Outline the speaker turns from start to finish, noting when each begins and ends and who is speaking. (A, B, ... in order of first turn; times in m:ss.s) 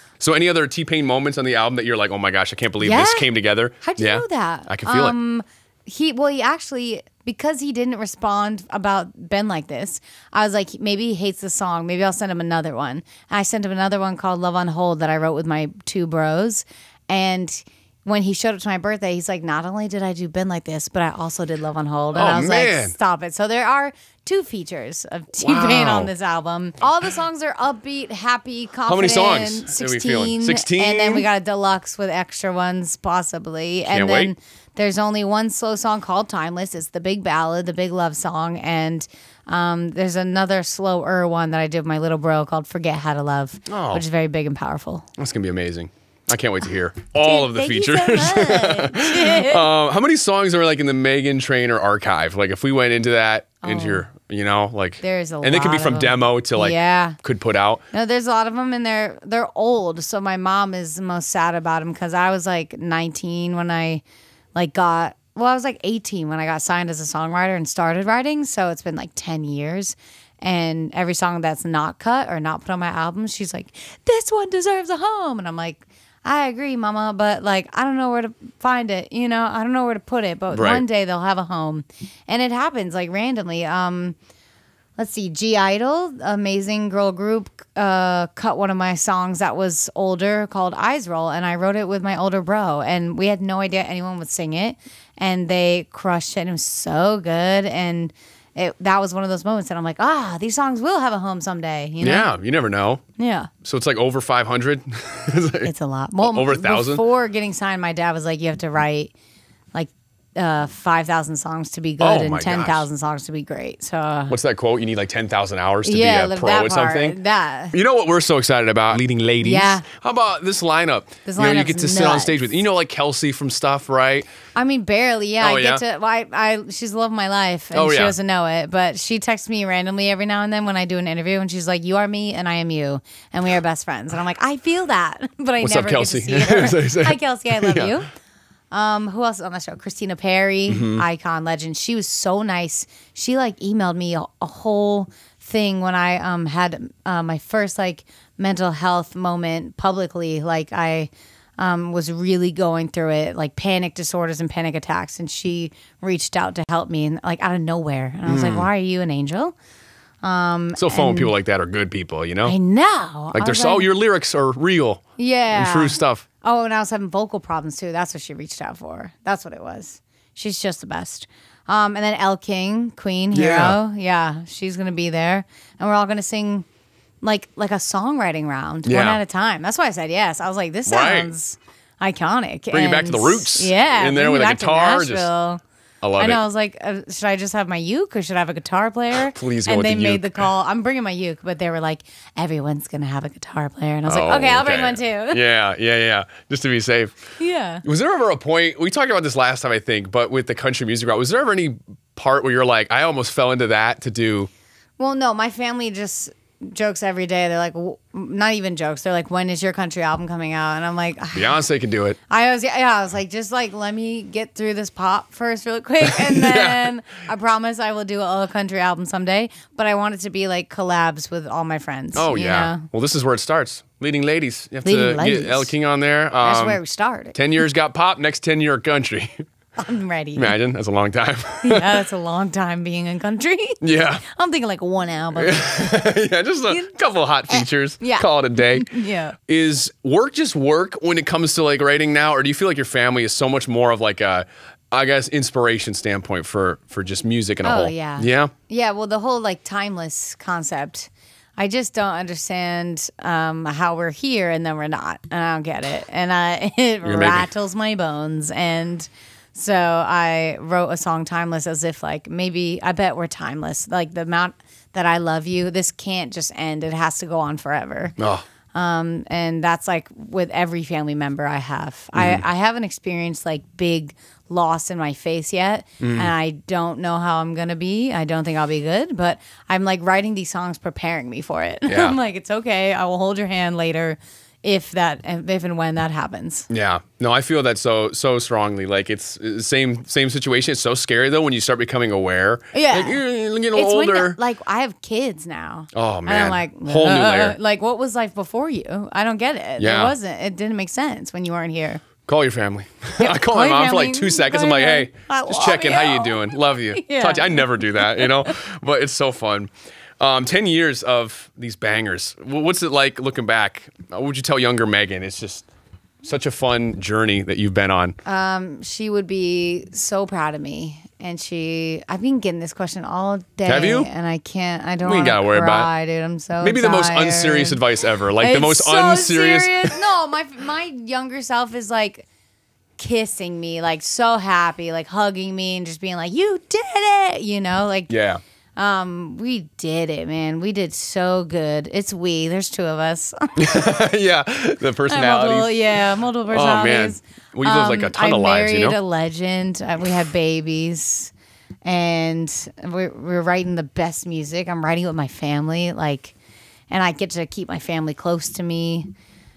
0:00.2-0:05.2 A
0:02.8-0:45.0 B
0:22.1-0:23.0 A
0:25.4-0:26.1 A
0:28.8-0:31.3 A
0:33.8-0:34.3 A
0:43.7-0:44.0 A
0:45.2-0:57.8 A
0:47.2-0:49.7 B
0:53.6-0:54.0 B
0:55.0-0:57.2 B
0:57.9-1:04.0 B
1:04.5-1:24.2 B
1:20.5-1:20.8 A
1:25.0-1:42.3 B
1:42.0-1:43.0 A
1:43.2-1:43.5 B
1:43.6-1:45.7 A
1:45.6-1:49.1 B
1:46.2-1:47.0 A
1:49.7-1:54.3 B
1:52.0-1:52.8 A
1:54.3-1:57.2 A
1:55.8-1:57.8 B
1:57.7-2:04.3 A
1:59.4-1:59.8 B
2:01.2-2:02.4 B
2:04.5-2:18.1 B
2:05.4-2:05.8 A
2:07.7-2:08.1 A
2:15.6-2:17.9 A
2:18.7-2:39.6 B
2:20.7-2:21.0 A
2:38.2-2:38.7 A
2:40.2-2:41.3 B
2:40.8-2:42.6 A
2:42.4-2:43.9 B
2:43.3-2:46.2 A
2:45.2-2:56.6 B
2:53.3-2:53.8 A
2:57.2-3:05.6 B
2:58.8-2:59.2 A
3:00.9-3:01.3 A
3:02.7-3:05.3 A
3:06.0-3:06.4 A
3:06.2-3:15.4 B
3:09.3-3:10.5 A
3:14.0-3:17.2 A
3:17.4-3:17.8 B
3:17.8-3:24.5 A
3:25.0-3:31.6 B
3:31.3-3:32.2 A
3:32.3-3:42.8 B
3:36.0-3:36.9 A
3:42.1-3:46.8 A
3:44.8-3:45.7 B
3:46.4-3:47.4 B
3:47.3-3:49.4 A
3:49.8-3:50.6 B
3:50.4-3:52.0 A
3:51.6-3:55.9 B
3:53.8-3:54.2 A
3:55.4-4:08.5 A
3:56.7-3:59.4 B
4:07.6-4:28.2 B
4:17.0-4:17.5 A
4:28.2-4:28.4 A
4:28.7-4:46.7 B
4:32.1-4:32.4 A
4:36.0-4:36.3 A
4:41.9-4:42.2 A
4:46.7-4:54.4 A
4:52.7-4:53.2 B
4:53.7-5:02.0 B
4:55.9-4:57.6 A
4:59.8-5:00.1 A
5:02.2-5:15.7 A
5:03.2-5:08.6 B
5:16.2-5:18.2 A
5:18.2-5:27.8 B
5:23.6-5:24.1 A
5:25.0-5:25.9 A
5:26.6-5:30.0 A
5:28.4-5:32.3 B
5:33.0-5:38.1 B
5:38.1-5:38.4 A
5:38.8-5:44.0 B
5:43.6-5:45.8 A
5:45.1-5:51.3 B
5:46.5-5:49.0 A
5:51.8-5:56.3 B
5:56.9-5:59.1 B